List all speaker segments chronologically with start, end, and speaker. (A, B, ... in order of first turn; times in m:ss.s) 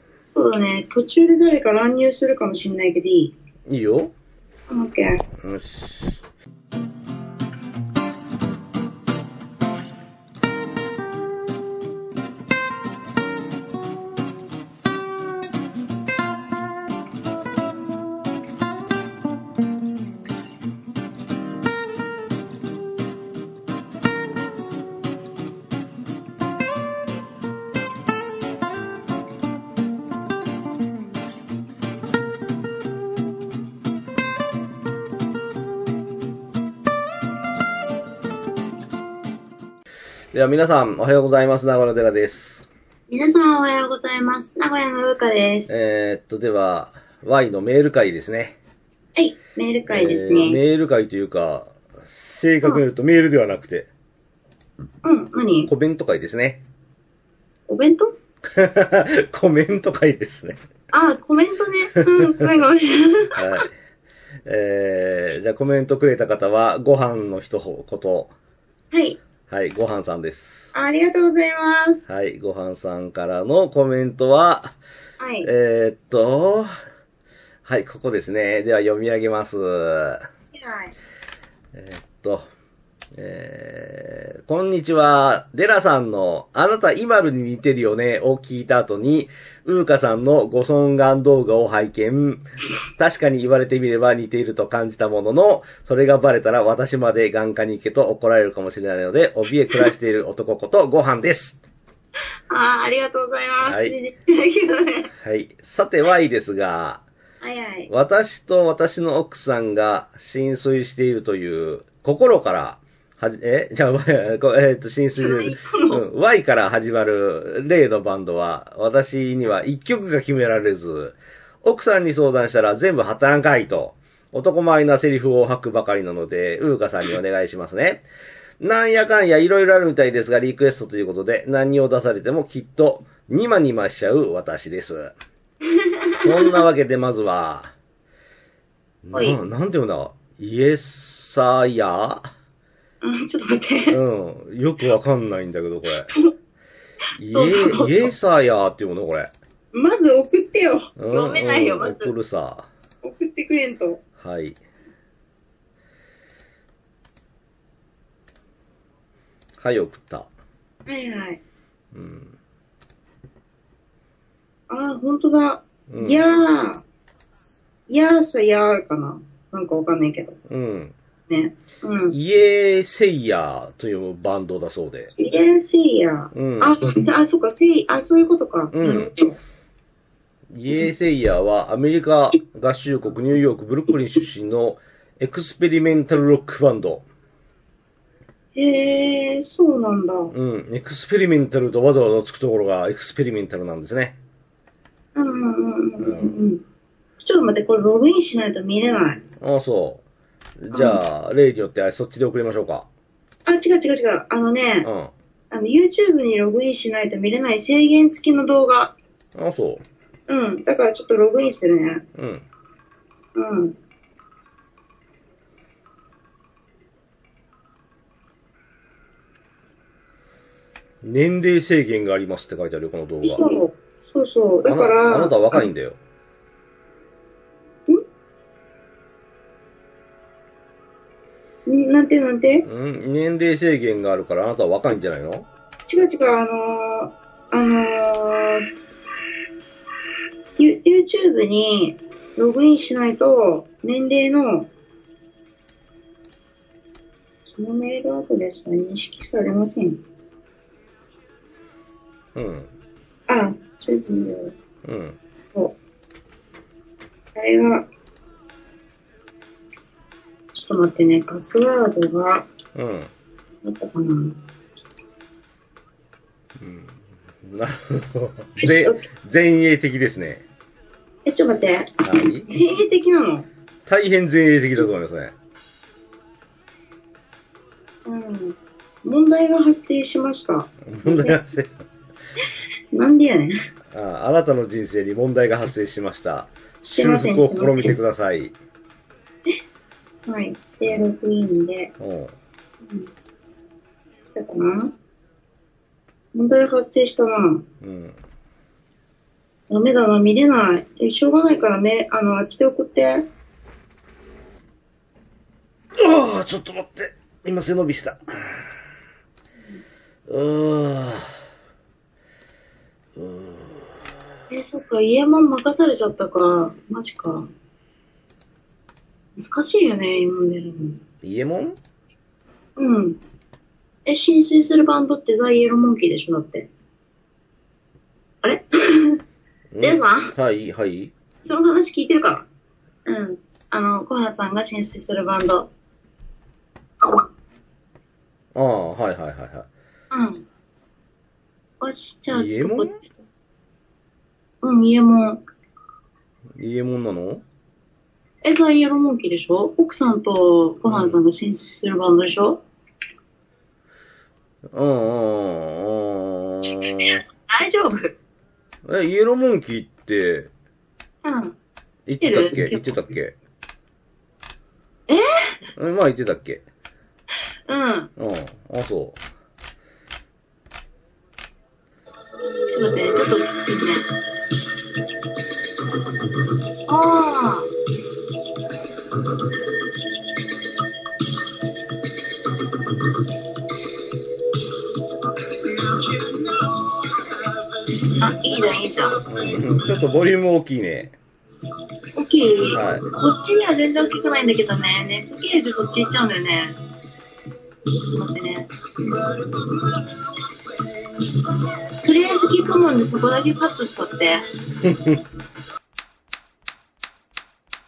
0:00.3-0:03.3 A
0:03.7-0:04.1 B
0:04.7-0:05.2 A
0:05.4-0:06.2 B
0:40.3-0:42.7 B
0:43.1-0:45.8 A
0:45.7-0:48.6 B
0:49.2-0:50.6 A
0:49.9-0:53.9 B
0:55.0-0:55.7 A
0:55.7-0:56.6 B
0:57.7-0:58.1 A
0:58.5-1:00.6 B
1:00.9-1:03.6 A
1:03.4-1:03.7 B
1:04.5-1:08.3 B
1:08.9-1:09.2 A
1:09.5-1:10.7 B
1:10.7-1:12.1 A
1:12.1-1:14.7 B
1:15.2-1:15.5 A
1:15.4-1:16.7 B
1:17.6-1:20.2 B
1:20.5-1:20.9 A
1:21.7-1:22.4 B
1:23.2-1:41.6 B
1:42.5-1:45.1 A
1:43.6-1:44.0 B
1:45.2-1:47.0 B
1:47.4-1:47.9 A
1:47.9-2:08.0 B
1:55.2-1:56.0 A
2:08.6-2:15.1 B
2:16.1-2:16.6 A
2:16.2-2:17.7 B
2:19.0-2:22.3 B
2:19.1-2:19.4 A
2:23.0-2:24.0 A
2:23.9-2:26.1 B
2:27.2-2:29.3 B
2:27.3-2:28.1 A
2:29.7-2:32.1 A
2:31.0-2:32.7 B
2:33.0-2:34.0 A
2:34.2-2:34.6 B
2:39.6-2:40.3 B
2:40.9-2:41.4 A
2:41.9-2:42.4 B
2:44.7-2:46.8 A
2:45.9-2:46.2 B
2:47.9-2:50.4 A
2:50.5-2:50.9 B
2:51.3-2:52.2 A
2:52.1-2:55.1 B
2:55.2-2:59.4 A
2:56.3-2:56.8 B
2:58.7-2:59.1 B
3:00.5-3:07.0 B
3:08.5-3:10.3 A
3:10.3-3:14.2 B
3:15.1-3:16.6 A
3:16.0-3:16.4 B
3:17.2-3:19.2 A
3:19.4-3:20.0 B
3:20.6-3:22.9 B
3:20.7-3:21.0 A
3:23.4-3:24.9 A
3:24.8-3:25.1 B
3:25.5-3:28.9 A
3:29.3-3:29.8 B
3:30.3-3:32.0 A
3:32.2-3:32.4 B
3:33.3-3:33.8 A
3:41.0-3:43.4 B
3:43.2-3:45.7 A
3:44.7-3:46.0 B
3:51.7-3:52.7 A
3:52.6-3:55.5 B
3:55.9-3:58.7 A
4:00.6-4:04.7 A
4:07.5-4:10.0 A
4:12.3-4:12.7 B
4:13.3-4:14.5 A
4:14.8-4:15.2 B
4:17.4-4:17.9 A
4:20.5-4:22.5 A
4:22.8-4:23.1 B
4:23.6-4:24.4 A
4:26.6-4:30.4 B
4:28.6-4:29.1 A
4:31.2-4:33.5 A
4:32.0-4:32.5 B
4:33.9-4:35.4 B
4:38.0-4:41.4 A
4:40.9-4:41.8 B
4:42.9-4:43.6 A
4:43.9-4:48.6 B
4:46.8-4:48.0 A
4:50.3-4:51.9 A
4:52.0-4:52.3 B
4:52.8-4:53.1 A
4:54.4-4:54.9 A
4:56.3-4:57.6 A
4:57.8-4:58.2 B
4:59.7-5:03.3 A
5:06.0-5:08.2 B
5:10.3-5:11.3 B
5:13.2-5:13.9 B
5:14.5-5:17.5 A
5:19.4-5:21.0 A
5:21.2-5:21.8 B
5:22.8-5:23.2 A
5:24.1-5:26.7 A
5:28.4-5:29.2 A
5:29.7-5:31.1 B
5:29.8-5:30.3 A
5:31.5-5:32.5 A
5:33.1-5:35.7 A
5:38.6-5:39.7 B
5:40.1-5:40.4 A
5:41.8-5:43.1 A
5:42.3-5:42.9 B
5:44.6-5:45.4 A
5:46.6-5:47.4 B
5:48.4-5:52.6 A
5:50.9-5:51.2 B
5:54.7-5:57.2 B
5:56.6-5:58.2 A
5:58.8-6:00.5 B
6:01.2-6:01.6 A
6:02.1-6:03.4 B
6:02.2-6:03.1 A
6:05.8-6:06.6 B
6:07.7-6:08.1 A
6:08.2-6:09.2 B
6:12.7-6:14.0 A
6:16.9-6:17.7 A
6:19.2-6:19.6 A
6:22.5-6:23.3 A
6:25.0-6:29.2 A
6:29.3-6:31.2 B
6:32.2-6:36.8 A
6:32.7-6:33.0 B
6:38.1-6:40.0 A
6:42.0-6:44.4 A
6:44.8-6:45.2 B